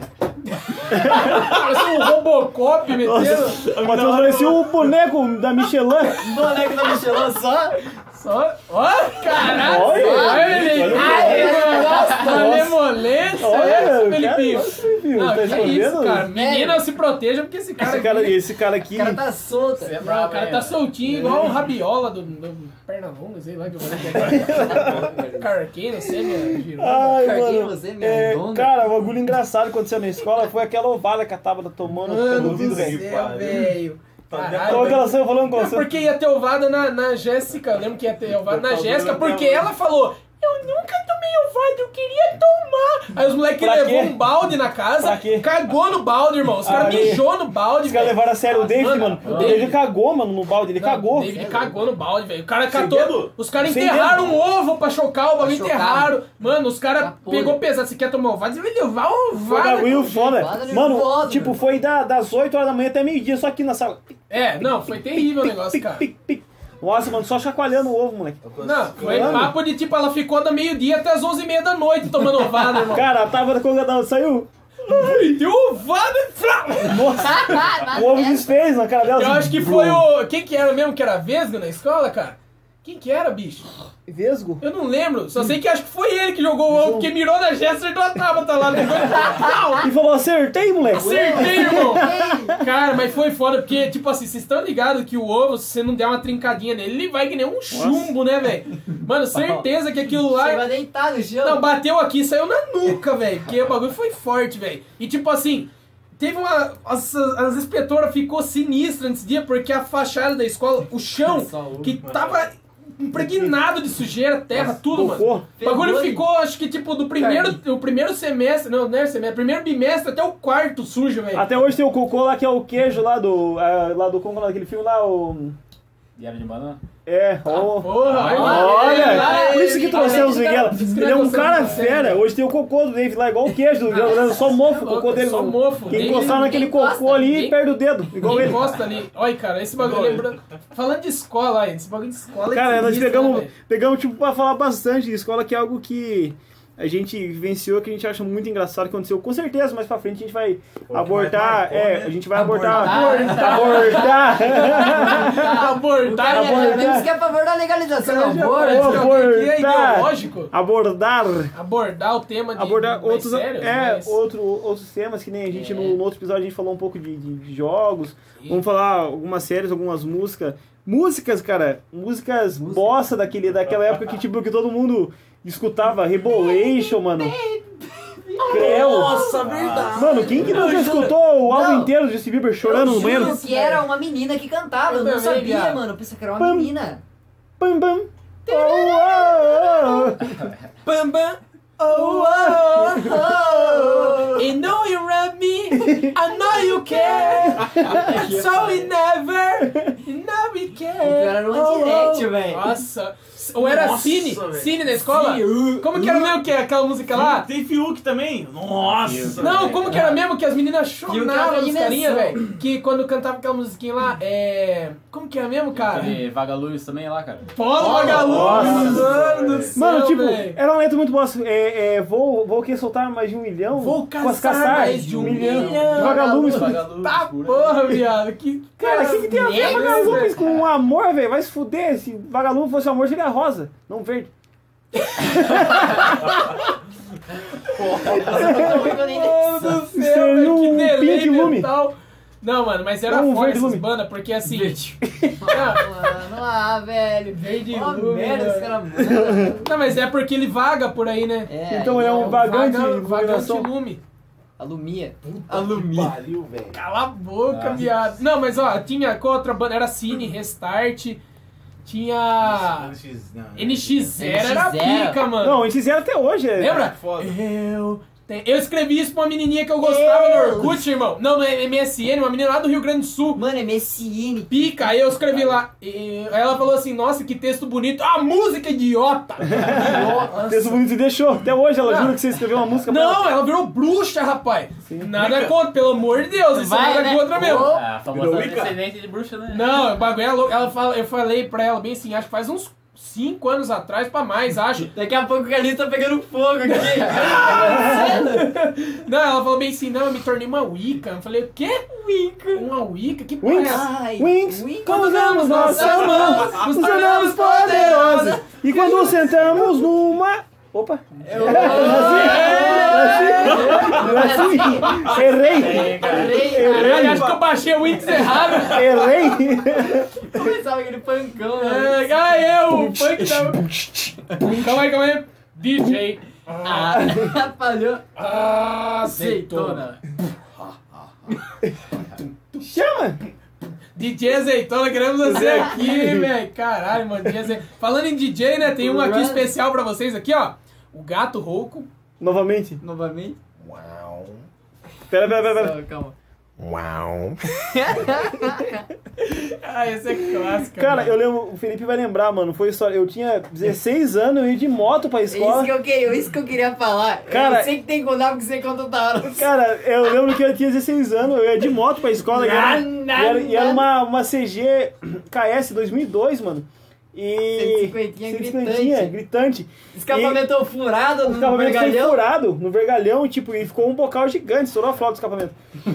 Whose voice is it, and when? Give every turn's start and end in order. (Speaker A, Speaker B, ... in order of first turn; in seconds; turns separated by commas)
Speaker A: 0.9-1.5, Speaker B: 0.9-3.6, Speaker C: 1.3-1.9, Speaker A: 3.0-6.3, Speaker C: 3.5-4.9, Speaker D: 6.1-7.8, Speaker B: 8.1-18.4, Speaker A: 9.4-12.8, Speaker D: 9.7-12.6, Speaker A: 13.4-16.3, Speaker D: 15.4-16.9, Speaker A: 17.8-19.2, Speaker D: 18.9-20.0, Speaker E: 19.8-20.9, Speaker B: 20.0-27.2, Speaker D: 21.1-21.5, Speaker A: 21.1-21.6, Speaker A: 24.3-25.1, Speaker D: 24.5-25.5, Speaker A: 26.6-33.0, Speaker D: 26.9-28.7, Speaker B: 32.0-49.8, Speaker C: 32.3-33.8, Speaker C: 34.3-35.1, Speaker A: 34.6-35.9, Speaker C: 38.5-39.7, Speaker A: 43.6-44.3, Speaker A: 45.0-45.5, Speaker A: 46.6-51.4, Speaker E: 49.2-49.7, Speaker B: 50.8-60.0, Speaker D: 51.2-51.8, Speaker C: 52.7-53.4, Speaker A: 53.6-54.3, Speaker D: 55.4-56.1, Speaker D: 57.0-57.6, Speaker A: 59.4-68.4, Speaker D: 59.8-61.6, Speaker B: 64.3-66.1, Speaker C: 68.4-69.5, Speaker B: 68.6-73.1, Speaker A: 69.0-69.5, Speaker A: 72.8-75.3, Speaker B: 74.8-77.1, Speaker A: 76.8-80.1, Speaker D: 77.1-78.5, Speaker B: 79.1-83.7, Speaker A: 84.1-84.6, Speaker B: 84.6-89.9, Speaker A: 86.7-87.1, Speaker A: 89.0-89.2, Speaker A: 89.8-92.6, Speaker D: 90.9-92.6, Speaker B: 90.9-100.7, Speaker A: 97.7-98.2, Speaker D: 100.1-101.6, Speaker B: 101.4-121.5, Speaker D: 111.2-112.0, Speaker C: 112.0-112.4, Speaker A: 113.1-113.6, Speaker A: 114.5-115.5, Speaker D: 115.6-116.3, Speaker D: 117.2-117.6, Speaker A: 121.3-125.6, Speaker E: 126.2-126.8, Speaker A: 127.1-138.7, Speaker B: 127.8-132.2, Speaker E: 128.1-128.8, Speaker D: 128.2-130.8, Speaker B: 134.3-136.6, Speaker D: 135.9-137.5, Speaker B: 138.2-143.5, Speaker C: 139.8-140.3, Speaker A: 142.5-155.6, Speaker C: 150.9-152.3, Speaker D: 152.3-159.1, Speaker B: 152.7-157.1, Speaker A: 156.2-157.1, Speaker B: 158.0-160.5, Speaker A: 158.6-161.5, Speaker B: 161.5-164.2, Speaker A: 162.6-177.3, Speaker D: 165.5-166.0, Speaker D: 172.6-173.0, Speaker D: 176.3-181.9, Speaker C: 178.4-181.2, Speaker A: 178.5-179.2, Speaker E: 179.5-179.8, Speaker A: 179.9-183.4, Speaker D: 182.6-187.0, Speaker B: 182.7-183.9, Speaker B: 184.9-185.8, Speaker A: 186.4-186.7, Speaker A: 187.6-190.5, Speaker D: 188.5-190.2, Speaker B: 190.8-192.8, Speaker D: 191.8-194.5, Speaker A: 192.7-193.5, Speaker B: 194.3-207.5, Speaker A: 195.8-196.2, Speaker D: 197.0-198.9, Speaker A: 199.7-199.9, Speaker D: 201.0-202.8, Speaker A: 201.6-202.2, Speaker C: 203.6-206.4, Speaker D: 205.2-205.8, Speaker C: 207.1-209.9, Speaker E: 208.8-210.1, Speaker B: 209.4-216.2, Speaker D: 211.1-212.4, Speaker E: 215.7-219.8, Speaker B: 217.5-220.6, Speaker C: 217.8-219.6, Speaker A: 218.2-219.1, Speaker A: 219.8-226.8, Speaker B: 223.8-230.4, Speaker D: 224.6-226.8, Speaker E: 226.1-227.9, Speaker A: 228.8-234.3, Speaker D: 229.3-230.3, Speaker A: 235.2-236.3, Speaker B: 235.3-235.7, Speaker D: 237.7-239.8, Speaker C: 237.8-238.2, Speaker B: 238.2-244.8, Speaker A: 238.2-238.9, Speaker A: 239.9-241.7, Speaker A: 243.1-243.8, Speaker D: 244.4-249.8, Speaker A: 245.0-245.6, Speaker B: 245.5-245.9, Speaker B: 247.3-248.7, Speaker A: 248.9-249.6, Speaker B: 249.6-251.5, Speaker D: 251.5-252.6, Speaker A: 251.7-253.7, Speaker B: 252.2-254.0, Speaker D: 254.6-256.2, Speaker C: 255.2-256.8, Speaker B: 256.7-261.2, Speaker E: 257.5-257.9, Speaker B: 261.8-262.9, Speaker C: 262.4-264.4, Speaker B: 263.6-265.6, Speaker D: 264.2-265.2, Speaker A: 265.4-266.9, Speaker B: 266.6-273.4, Speaker C: 266.7-267.3, Speaker D: 269.8-270.8, Speaker D: 273.4-274.9, Speaker B: 274.5-280.8, Speaker A: 279.5-283.3, Speaker D: 279.8-280.3, Speaker B: 281.8-282.2, Speaker B: 282.9-287.8, Speaker C: 285.1-285.6, Speaker D: 286.5-287.8, Speaker E: 287.4-289.9, Speaker C: 288.1-288.8, Speaker B: 289.5-294.9, Speaker D: 294.9-298.6, Speaker B: 296.7-301.9, Speaker A: 297.5-298.2, Speaker D: 301.9-302.7, Speaker B: 302.5-303.9, Speaker A: 303.4-317.3, Speaker D: 303.6-309.5, Speaker B: 304.9-308.4, Speaker D: 311.2-317.1, Speaker B: 311.3-315.0, Speaker C: 313.5-314.0, Speaker C: 314.9-318.6, Speaker E: 315.4-316.5, Speaker B: 316.4-319.1, Speaker A: 318.6-320.6, Speaker D: 320.3-322.1, Speaker B: 321.6-323.7, Speaker A: 322.7-324.7, Speaker B: 324.4-327.0, Speaker D: 326.6-328.0, Speaker A: 327.0-327.3, Speaker B: 328.2-329.9, Speaker D: 329.1-330.0, Speaker A: 332.6-333.2, Speaker B: 334.0-341.9, Speaker A: 335.2-336.3, Speaker D: 338.8-339.5, Speaker A: 342.2-342.8, Speaker D: 342.8-343.4, Speaker C: 343.6-344.4, Speaker A: 345.1-345.8, Speaker D: 345.3-346.1, Speaker C: 346.6-347.4, Speaker D: 347.5-348.9, Speaker B: 349.2-351.2, Speaker A: 350.6-355.7, Speaker D: 355.3-359.5, Speaker A: 357.3-357.7, Speaker A: 359.2-370.5, Speaker D: 362.3-363.8, Speaker D: 367.6-369.1, Speaker D: 369.9-372.2, Speaker A: 371.2-375.6